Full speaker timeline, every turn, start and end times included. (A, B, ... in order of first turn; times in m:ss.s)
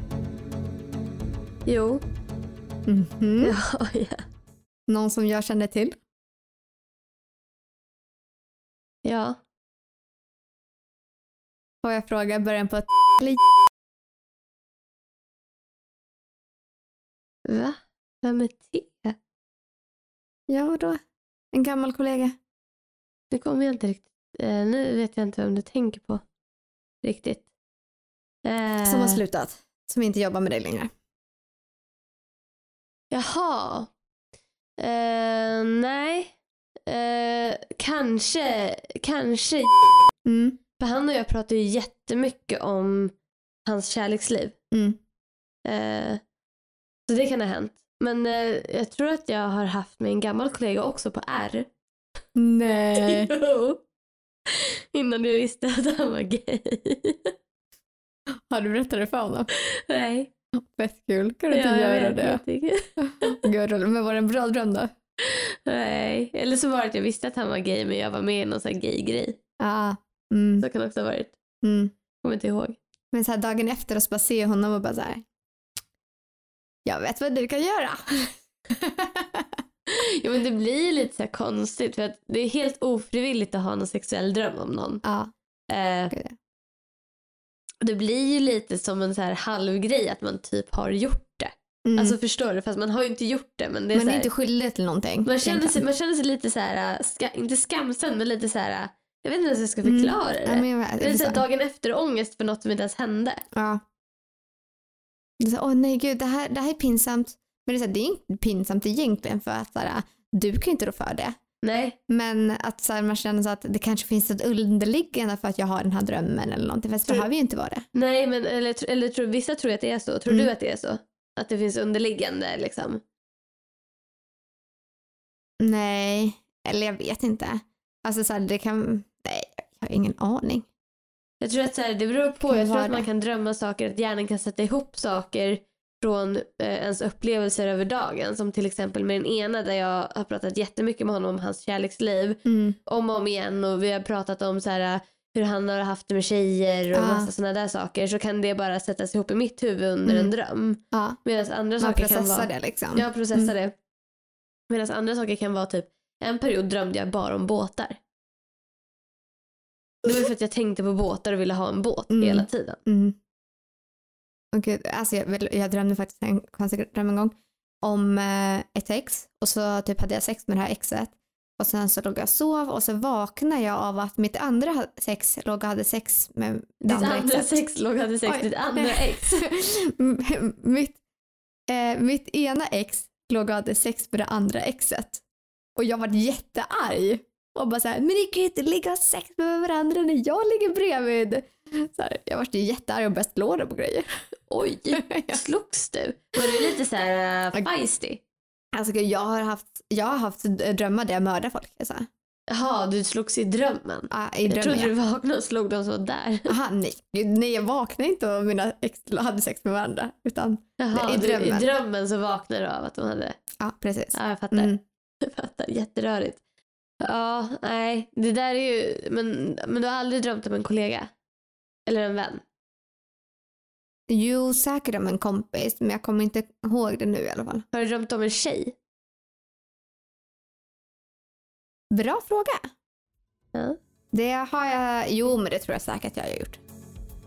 0:01.7-0:02.0 A
0:02.9-0:03.6 B
0:03.4-0:04.2 A
0:04.9-0:06.0 B
0:09.0-0:09.4 A
0:11.8-0:13.4 B
0:17.5-0:19.2 A
0:20.5-0:21.0 B
0:21.5-0:22.4 B
0:23.3-0:26.2 A
0:27.0-0:27.4 A
0:28.4-0:29.2 A
0:28.8-0:30.9 B
0:33.1-0:33.9 A
0:34.8-0:36.4 A
0:36.9-0:39.9 A
0:40.2-0:40.6 B
0:40.8-0:43.1 A
0:43.7-0:44.6 A
0:44.7-0:45.0 B
0:45.6-0:46.2 A
0:47.1-0:51.7 A
0:52.4-0:53.3 B
0:53.0-0:53.8 A
0:54.5-0:57.3 A
0:58.5-0:59.5 B
0:59.5-1:00.3 A
1:00.6-1:02.4 B
1:01.5-1:03.4 A
1:03.0-1:04.9 B
1:05.2-1:09.4 A
1:09.6-1:10.7 B
1:10.6-1:11.3 A
1:11.6-1:11.9 B
1:12.2-1:12.8 A
1:13.1-1:15.2 B
1:16.9-1:19.5 B
1:19.9-1:25.0 A
1:25.0-1:25.3 B
1:25.7-1:26.1 A
1:26.1-1:26.4 B
1:27.8-1:34.3 A
1:31.8-1:32.2 B
1:33.9-1:35.8 B
1:35.2-1:43.4 A
1:39.8-1:41.4 B
1:43.6-1:43.8 B
1:45.4-1:51.3 B
1:51.6-1:52.0 A
1:52.1-1:57.8 B
1:58.0-2:03.0 A
2:05.6-2:10.7 B
2:11.4-2:33.7 A
2:12.4-2:13.1 B
2:22.4-2:22.8 B
2:26.9-2:27.3 B
2:30.0-2:30.3 B
2:30.9-2:31.2 B
2:31.8-2:33.5 B
2:34.7-2:38.0 A
2:40.0-2:42.8 A
2:42.1-2:43.2 B
2:44.5-2:57.6 B
2:56.8-2:59.4 A
2:58.3-3:01.0 B
3:01.7-3:05.2 B
3:05.8-3:14.1 B
3:14.5-3:18.2 A
3:14.9-3:15.4 B
3:18.7-3:22.1 B
3:22.5-3:26.6 A
3:24.1-3:24.9 B
3:26.5-3:31.7 B
3:30.8-3:33.4 A
3:33.6-3:34.8 B
3:34.1-3:36.4 A
3:37.0-3:41.1 A
3:41.9-3:42.4 A
3:44.1-3:47.6 B
3:47.7-3:48.7 A
3:51.9-3:52.6 B
3:54.1-3:56.6 B